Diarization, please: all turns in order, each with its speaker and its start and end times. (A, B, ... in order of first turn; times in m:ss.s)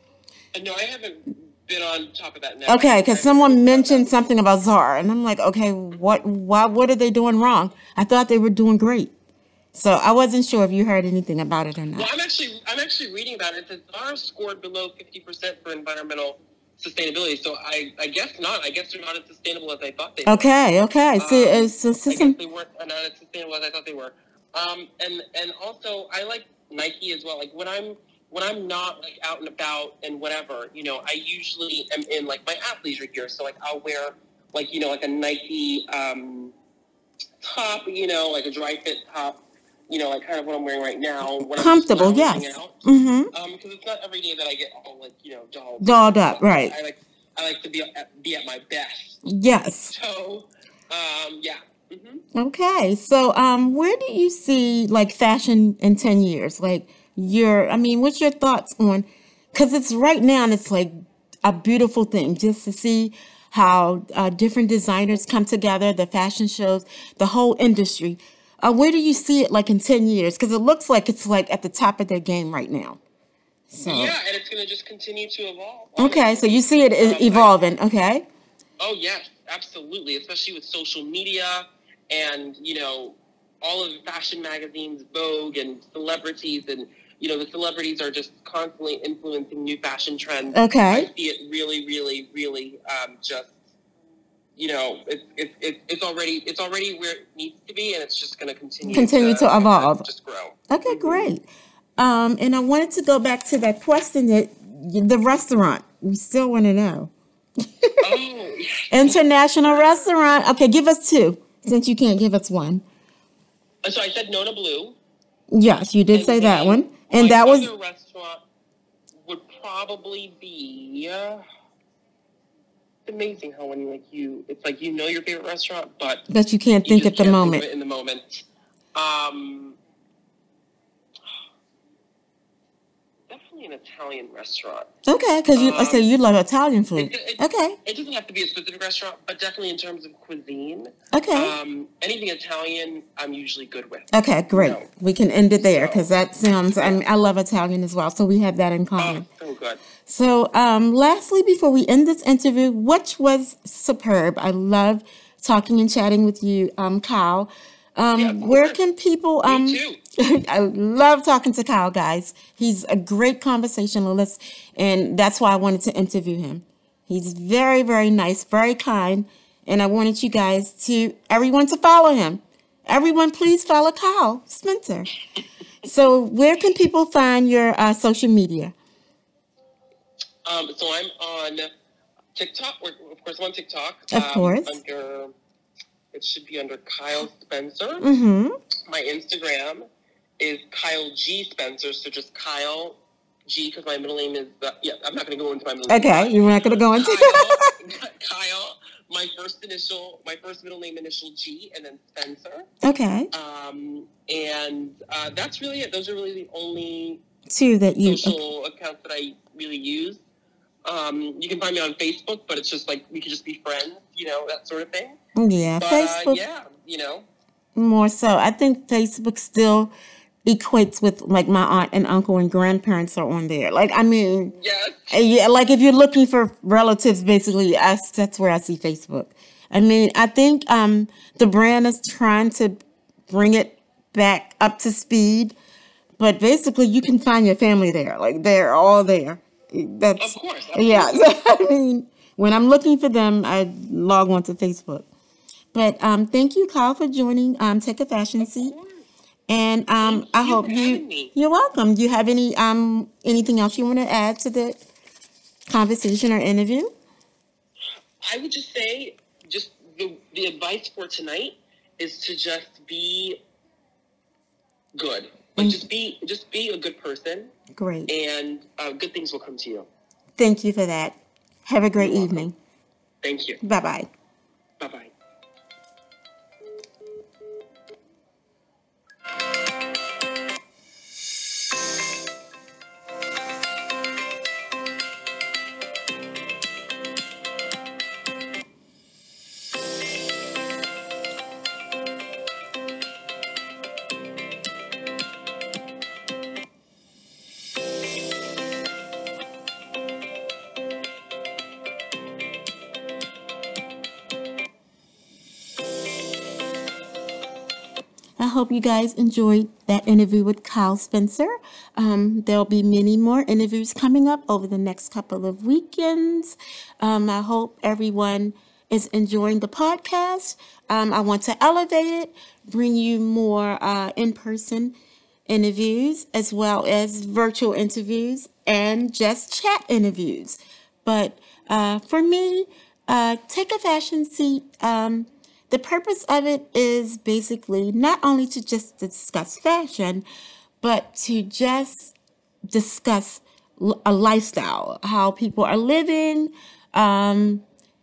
0:00.5-0:04.2 A
0:02.7-0:09.1 B
0:09.7-0:12.1 B
0:11.9-0:20.5 A
0:20.2-0:22.3 B
0:21.1-0:36.5 A
0:37.4-0:42.8 A
0:41.4-0:43.3 B
0:43.3-0:49.2 A
0:45.8-0:46.7 B
0:49.2-0:49.9 B
0:49.9-0:52.2 A
0:52.3-1:00.9 B
1:01.4-1:13.0 B
1:13.7-1:14.1 B
1:13.8-1:17.6 A
1:16.0-1:18.2 B
1:18.8-1:33.5 A
1:30.5-1:31.1 B
1:34.6-1:41.3 A
1:38.8-1:40.0 B
1:40.7-1:41.4 B
1:42.0-1:47.1 B
1:47.8-1:48.1 B
1:48.0-1:50.1 A
1:48.9-1:52.8 B
1:53.8-1:55.0 A
1:55.5-1:57.7 B
1:56.1-1:58.4 A
1:59.2-2:01.4 A
2:03.0-2:06.2 A
2:06.3-2:07.6 B
2:06.8-2:09.8 A
2:13.3-2:14.9 A
2:15.0-2:17.8 B
2:15.5-2:16.1 A
2:17.0-2:24.9 A
2:21.1-2:21.5 B
2:24.1-2:29.2 B
2:25.6-2:26.1 A
2:26.8-2:27.0 A
2:29.0-2:29.8 A
2:30.0-2:55.1 B
2:38.1-2:38.8 A
2:39.4-2:40.0 A
2:55.8-2:58.7 B
3:00.4-3:01.7 A
3:02.3-3:05.3 A
3:04.1-3:04.8 B
3:06.1-3:08.0 A
3:08.0-3:08.6 B
3:08.9-3:09.8 A
3:10.4-3:22.7 A
3:15.9-3:17.7 B
3:22.8-3:23.3 B
3:23.3-3:27.2 A
3:27.5-3:28.4 B
3:28.0-3:30.2 A
3:30.8-3:35.2 A
3:35.4-3:36.4 B
3:35.8-3:37.3 A
3:37.8-3:39.9 B
3:40.4-3:44.5 B
3:44.5-3:45.2 A
3:45.1-3:52.8 B
3:53.3-3:55.5 B
3:56.2-4:05.1 B
4:00.2-4:01.3 A
4:05.7-4:08.7 B
4:08.4-4:09.1 A
4:09.5-4:14.8 B
4:10.0-4:11.3 A
4:15.7-4:16.9 B
4:18.2-4:23.4 A
4:25.0-4:27.5 A
4:25.6-4:25.8 B
4:27.7-4:28.1 B
4:28.1-4:29.9 A
4:30.4-4:32.5 B
4:32.0-4:32.5 A
4:33.2-4:33.6 A
4:33.6-4:34.1 B
4:34.8-4:35.1 A
5:08.4-5:24.9 B
5:25.5-5:40.2 B
5:40.8-5:42.1 B
5:42.7-5:47.6 B